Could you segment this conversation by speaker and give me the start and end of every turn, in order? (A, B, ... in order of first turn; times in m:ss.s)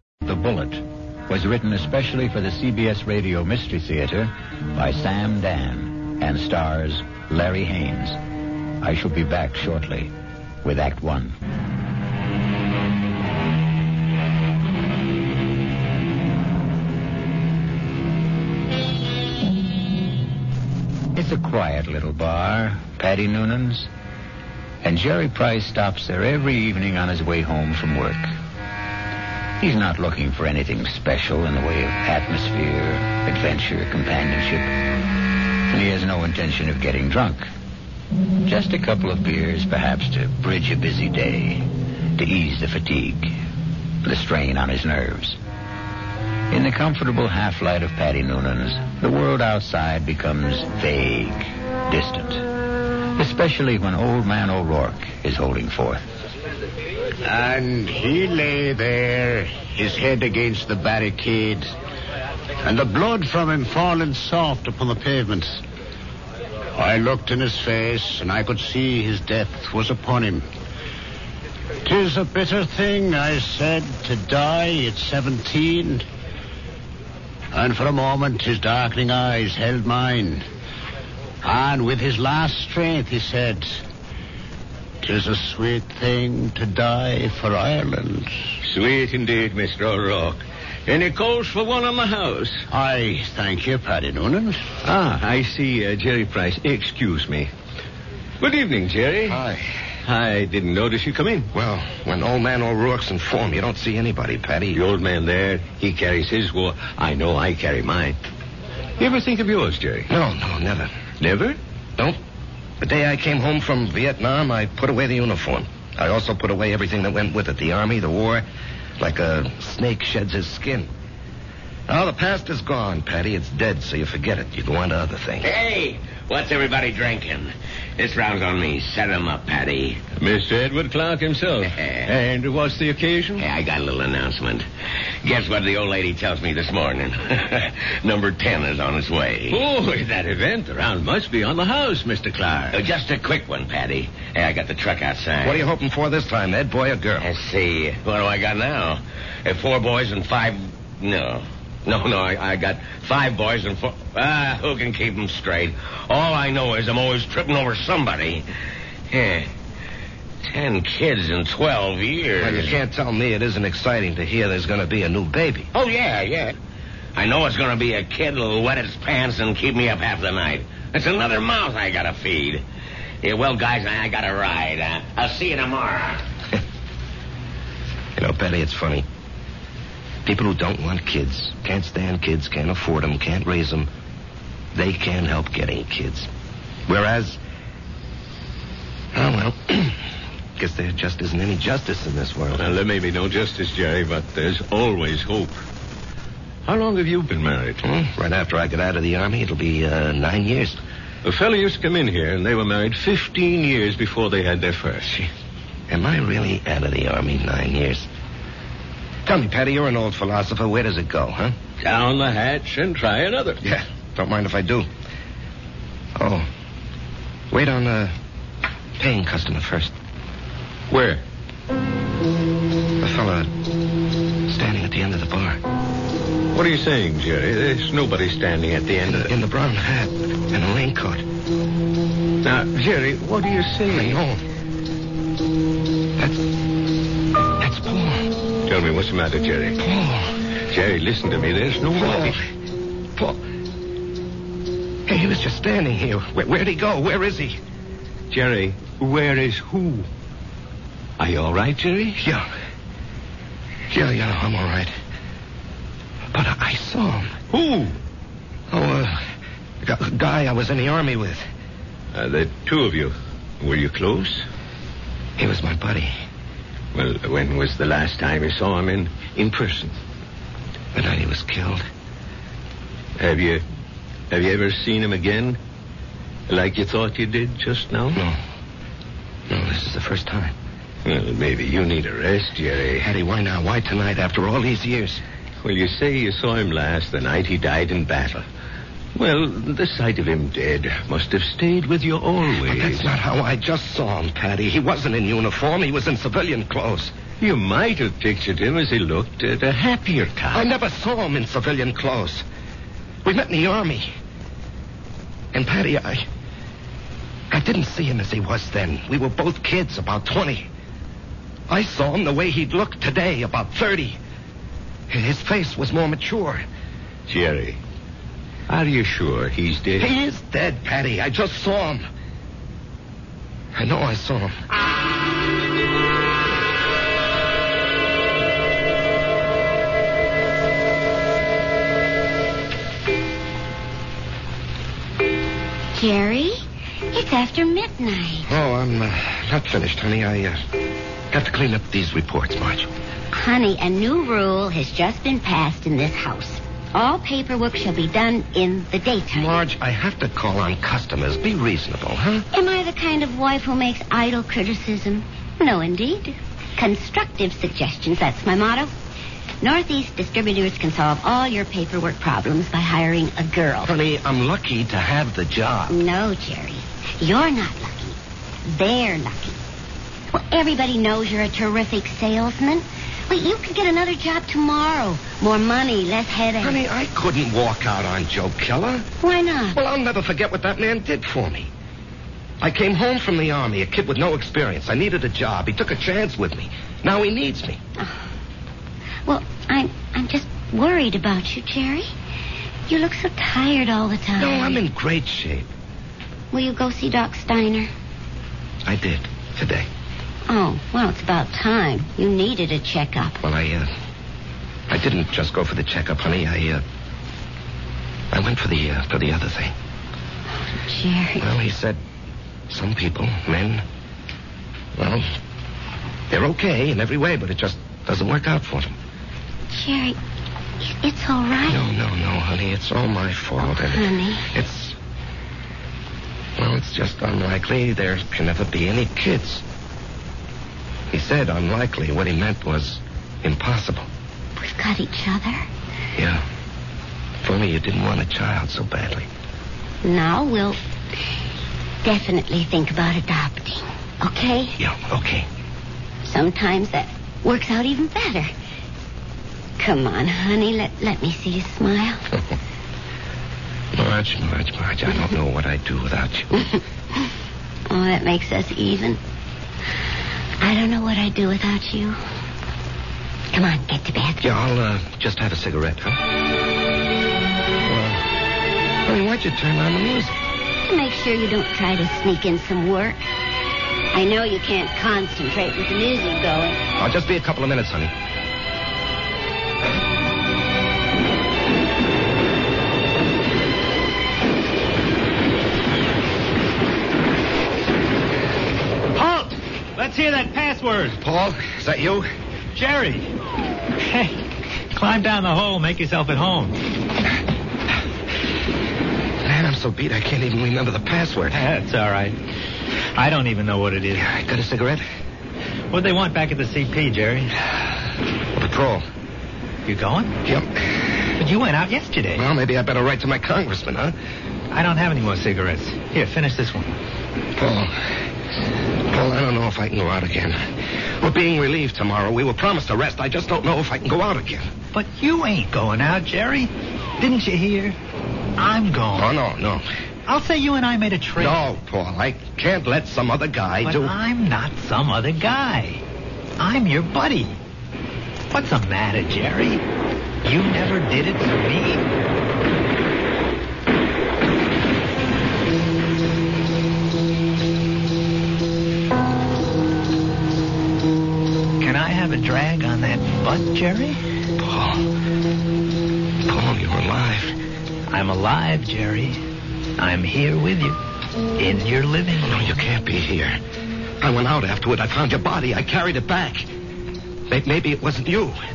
0:00.2-0:08.2 A
0:08.8-0:10.1 A
0:10.6-0:11.4 A
0:21.1-0:23.9 A
0:24.8-0:28.3 A
0:29.6-0:34.7 A
0:35.7-0:37.4 A
0:38.4-0:43.3 A
0:44.0-0:45.4 A
0:46.5-0:52.4 A
0:53.2-0:56.0 A
0:57.2-1:01.7 B
1:02.6-1:05.6 B
1:06.8-1:10.4 B
1:11.8-1:16.1 B
1:17.5-1:20.4 B
1:21.4-1:23.8 B
1:25.0-1:28.3 B
1:28.6-1:32.6 C
1:32.7-1:34.6 B
1:34.8-1:37.5 C
1:38.4-1:39.4 C
1:39.3-1:39.6 D
1:40.0-1:41.5 C
1:41.5-1:44.8 D
1:44.7-1:48.2 C
1:49.0-1:50.1 C
1:50.1-1:50.9 D
1:51.2-1:51.6 C
1:52.8-1:58.4 D
1:59.0-2:00.9 D
2:01.9-2:05.6 D
2:05.4-2:10.0 E
2:10.2-2:13.4 C
2:11.7-2:12.1 E
2:13.4-2:14.7 E
2:15.2-2:19.6 E
2:19.5-2:22.8 C
2:22.7-2:25.6 E
2:25.4-2:27.3 D
2:27.2-2:38.4 E
2:39.1-2:39.5 E
2:40.4-2:42.8 E
2:42.4-2:45.7 D
2:45.7-2:46.5 E
2:47.2-2:52.6 E
2:53.2-2:56.2 E
2:58.2-2:59.0 D
3:00.2-3:03.9 D
3:04.7-3:06.3 D
3:06.9-3:07.4 D
3:09.1-3:10.0 D
3:10.6-3:12.8 D
3:12.5-3:15.6 C
3:16.7-3:17.8 C
3:17.8-3:20.8 D
3:21.2-3:25.2 C
3:25.9-3:28.1 D
3:29.2-3:31.5 D
3:31.8-3:33.6 C
3:33.6-3:34.9 D
3:36.2-3:36.5 D
3:37.5-3:38.1 D
3:39.0-3:39.9 D
3:40.9-3:41.2 C
3:43.0-3:43.5 D
3:44.5-3:45.6 D
3:46.5-3:49.3 C
3:49.1-3:51.2 D
3:52.4-3:54.2 C
3:53.9-3:54.4 D
3:56.2-3:56.4 D
3:57.6-3:58.3 D
3:58.6-3:59.8 C
3:59.8-4:00.3 D
4:00.7-4:02.4 C
4:01.9-4:02.4 D
4:05.1-4:07.6 D
4:08.3-4:10.1 C
4:11.2-4:12.2 C
4:12.2-4:12.5 D
4:13.9-4:14.9 D
4:16.3-4:17.3 D
4:17.5-4:18.0 C
4:18.7-4:19.2 D
4:19.8-4:21.4 D
4:22.1-4:24.4 C
4:25.4-4:26.1 D
4:26.9-4:30.0 C
4:30.9-4:31.8 D
4:33.2-4:33.6 C
4:34.3-4:35.6 C
4:36.5-4:38.2 C
4:39.5-4:40.6 D
4:41.0-4:43.1 C
4:43.0-4:45.2 D
4:45.6-4:48.4 C
4:49.1-4:53.1 C
4:52.7-4:57.1 D
4:57.4-5:00.7 C
5:00.5-5:02.4 D
5:03.2-5:04.1 D
5:05.5-5:06.2 D
5:07.5-5:10.7 D
5:11.7-5:14.2 D
5:15.1-5:16.6 D
5:17.3-5:17.8 C
5:18.7-5:20.1 C
5:20.0-5:22.1 D
5:23.8-5:24.6 D
5:35.9-5:36.6 F
5:37.1-5:38.5 F
5:38.5-5:40.6 D
5:41.3-5:42.9 D
5:43.3-5:49.6 F
5:49.3-5:52.4 D
5:52.5-5:58.9 F
5:59.6-6:03.9 F
6:03.8-6:06.0 D
6:05.9-6:09.6 F
6:10.3-6:16.8 F
6:16.6-6:19.1 D
6:19.2-6:19.8 F
6:19.7-6:21.7 D
6:22.6-6:27.8 D
6:29.2-6:32.1 F
6:32.9-6:34.8 F
6:34.4-6:35.7 D
6:36.5-6:37.9 F
6:38.8-6:39.9 D
6:40.5-6:43.4 F
6:43.4-6:43.9 D
6:44.9-6:46.8 D
6:48.3-6:49.8 D
6:50.7-6:51.4 F
6:51.4-6:52.0 D
6:52.7-6:53.8 D
6:55.0-6:55.3 D
6:56.3-6:58.9 D
6:59.7-7:00.2 F
7:00.8-7:01.8 F
7:01.6-7:05.0 D
7:03.6-7:04.5 F
7:06.6-7:09.6 D
7:11.1-7:14.1 D
7:14.6-7:15.7 F
7:16.2-7:16.4 D
7:17.4-7:19.3 D
7:20.0-7:20.8 F
7:22.0-7:24.8 F
7:24.8-7:25.5 D
7:26.2-7:28.5 F
7:29.8-7:32.2 F
7:33.9-7:36.5 D
7:37.9-7:39.2 F
7:40.6-7:42.2 F
7:43.5-7:44.5 F
7:44.4-7:46.2 D
7:47.8-7:48.3 D
7:49.0-7:50.3 D
7:50.8-7:53.2 F
7:54.1-7:56.8 F
7:57.0-7:58.1 D
8:09.1-8:11.2 G
8:11.2-8:12.3 D
8:12.7-8:13.3 G
8:14.0-8:14.4 G
8:14.9-8:16.8 G
8:19.4-8:21.6 D
8:21.5-8:22.4 G
8:23.2-8:24.3 G
8:24.2-8:25.0 D
8:25.9-8:27.5 G
8:28.6-8:29.0 D
8:29.8-8:30.4 G
8:30.4-8:31.2 D
8:31.4-8:32.5 G
8:32.4-8:34.2 D
8:34.7-8:36.9 G
8:37.6-8:38.1 D
8:39.1-8:44.7 D
8:44.9-8:48.0 G
8:48.6-8:49.3 G
8:49.1-8:49.9 D
8:50.3-8:51.6 G
8:51.4-8:54.2 D
8:53.8-8:56.0 G
8:56.6-8:57.6 G
8:58.5-8:59.8 G
9:00.4-9:02.1 G
9:11.8-9:14.2 G
9:14.6-9:15.1 D
9:16.5-9:17.6 D
9:18.1-9:19.4 G
9:20.0-9:21.0 G
9:21.6-9:22.8 G
9:22.4-9:23.6 D
9:24.2-9:26.7 D
9:27.5-9:28.6 D